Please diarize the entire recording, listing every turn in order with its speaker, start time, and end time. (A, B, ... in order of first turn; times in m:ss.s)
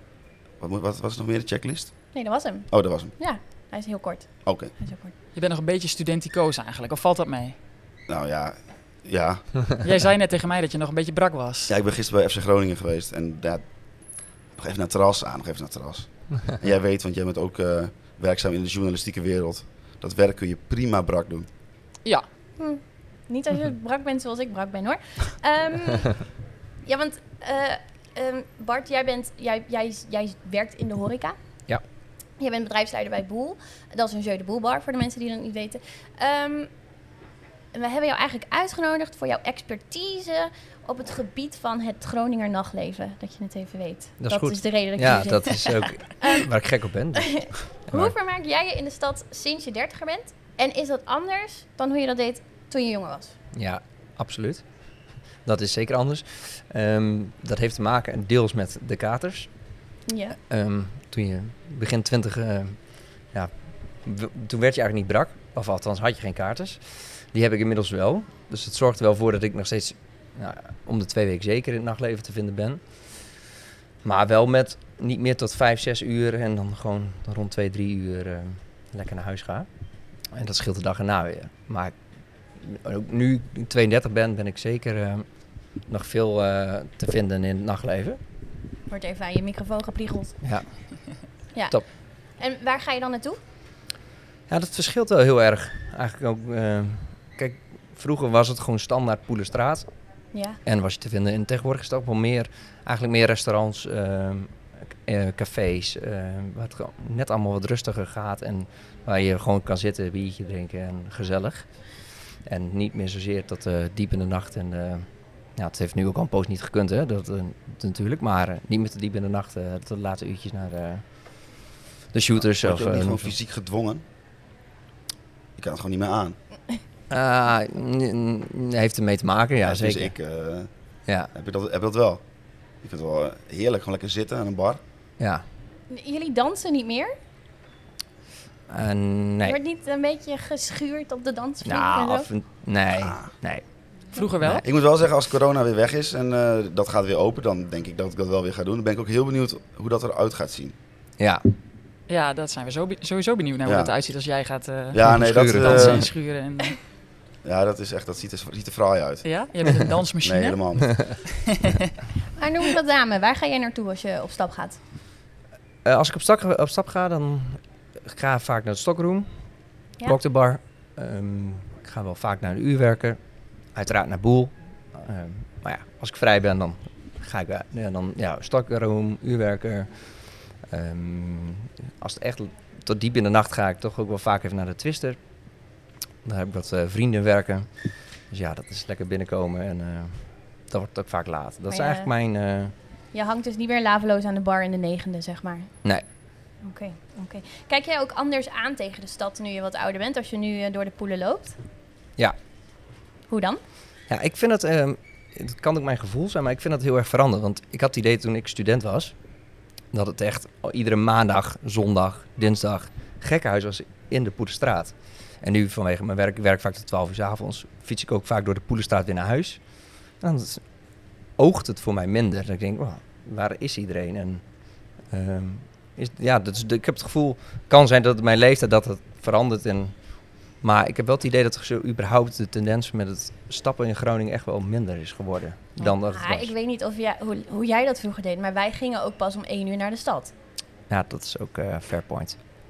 0:00.6-0:02.1 A
0:02.1-0:05.1 B
0:02.7-0:03.1 A
0:04.4-0:04.7 A
0:05.4-0:07.6 C
0:08.1-0:09.6 A
0:09.8-0:11.7 C
0:11.7-0:13.6 A
0:14.5-0:21.5 A
0:22.6-0:26.3 B
0:26.8-0:31.4 B
0:32.4-0:36.7 B
0:37.7-0:46.4 B
0:44.2-0:48.1 D
0:47.3-0:53.3 B
0:53.5-0:54.6 D
0:55.4-0:59.5 D
1:00.1-1:00.4 B
1:00.5-1:02.8 D
1:03.3-1:12.8 D
1:14.0-1:19.7 D
1:20.3-1:21.9 D
1:22.6-1:25.3 D
1:25.9-1:28.2 D
1:28.9-1:30.4 B
1:32.4-1:33.4 B
1:34.5-1:39.9 D
1:40.6-1:51.7 D
1:52.5-2:01.0 D
2:02.1-2:03.3 D
2:02.4-2:04.0 A
2:05.6-2:06.4 A
2:07.1-2:10.1 D
2:09.6-2:10.7 A
2:11.3-2:12.2 A
2:12.8-2:14.8 A
2:15.2-2:15.4 D
2:15.9-2:17.1 B
2:18.7-2:19.6 D
2:19.4-2:22.3 B
2:21.6-2:23.6 D
2:24.1-2:24.6 C
2:24.4-2:24.7 D
2:24.6-2:30.8 A
2:31.2-2:31.5 D
2:32.1-2:36.8 C
2:33.6-2:33.9 A
2:34.9-2:36.1 A
2:35.0-2:36.1 D
2:37.4-2:39.2 A
2:39.2-2:40.6 C
2:40.2-2:41.2 A
2:41.2-2:41.8 C
2:42.4-2:44.8 B
2:45.8-2:49.3 D
2:50.0-2:53.2 D
2:53.8-2:59.9 D
3:00.6-3:05.2 D
3:06.2-3:07.7 D
3:08.3-3:12.7 D
3:11.7-3:12.1 B
3:13.1-3:15.7 B
3:16.6-3:21.6 B
3:23.3-3:23.6 B
3:24.1-3:29.1 D
3:29.9-3:39.6 D
3:40.2-3:40.6 D
3:41.4-3:44.4 D
3:45.1-3:50.0 D
3:50.6-3:56.5 D
3:55.8-4:00.3 B
4:00.9-4:02.4 D